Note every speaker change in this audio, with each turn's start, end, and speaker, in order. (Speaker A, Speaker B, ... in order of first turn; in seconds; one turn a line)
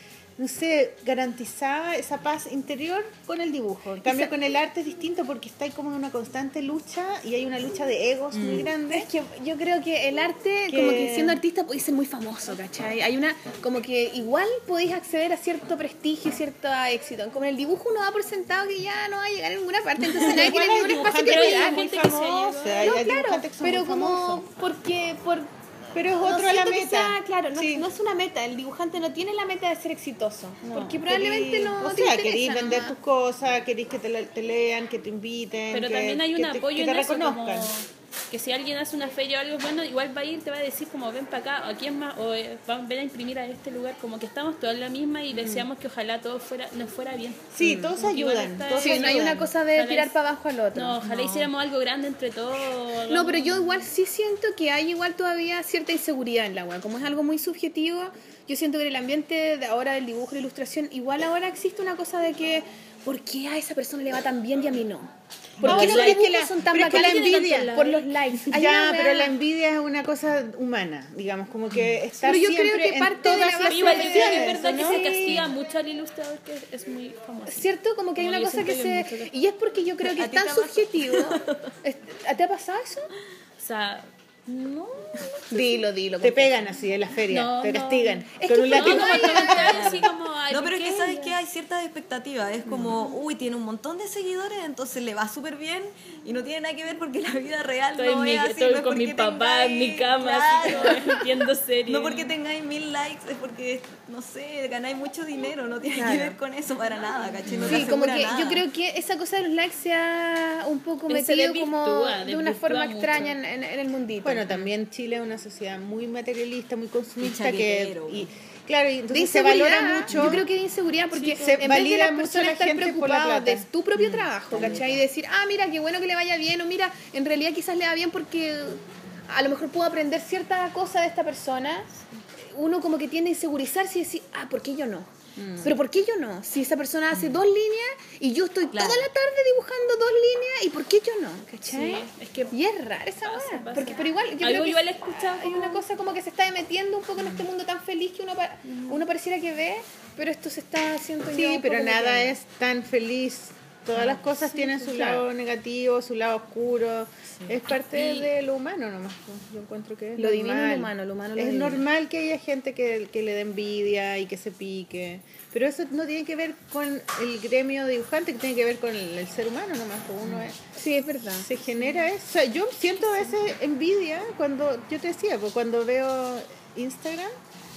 Speaker A: 0.4-9.1
Speaker B: 4.0-4.3
Speaker B: 8.3-21.9
Speaker A: 10.7-11.4
Speaker A: 20.1-24.4
Speaker C: 21.1-23.0
Speaker B: 22.7-25.5
Speaker A: 25.9-27.9
Speaker B: 26.2-32.9
Speaker A: 30.6-37.7
Speaker C: 35.7-50.1
Speaker A: 45.3-45.7
Speaker A: 47.5-49.5
Speaker B: 48.7-51.4
Speaker C: 50.7-53.8
Speaker B: 53.1-69.3
Speaker A: 65.6-67.8
Speaker C: 65.6-68.1
Speaker A: 68.5-75.5
Speaker B: 72.2-75.4
Speaker C: 73.7-79.3
Speaker B: 77.5-83.1
Speaker D: 80.0-81.7
Speaker C: 83.6-84.1
Speaker B: 85.5-86.7
Speaker A: 85.5-90.0
Speaker C: 87.3-91.4
Speaker B: 88.4-90.0
Speaker D: 89.7-101.3
Speaker A: 92.7-93.0
Speaker C: 98.0-102.3
Speaker D: 101.9-108.7
Speaker B: 106.0-106.3
Speaker A: 107.5-107.9
Speaker B: 107.7-114.5
Speaker C: 111.1-113.4
Speaker A: 114.2-120.5
Speaker D: 117.2-118.3
Speaker B: 119.1-131.9
Speaker C: 121.1-121.8
Speaker A: 121.4-124.8
Speaker D: 124.5-125.0
Speaker B: 132.5-135.1
Speaker A: 135.3-135.8
Speaker B: 135.6-152.3
Speaker D: 138.7-139.1
Speaker C: 141.7-142.6
Speaker C: 143.2-145.8
Speaker C: 148.7-149.0
Speaker A: 151.3-170.6
Speaker B: 154.0-155.2
Speaker B: 160.2-161.8
Speaker B: 170.8-171.5
Speaker A: 171.3-177.3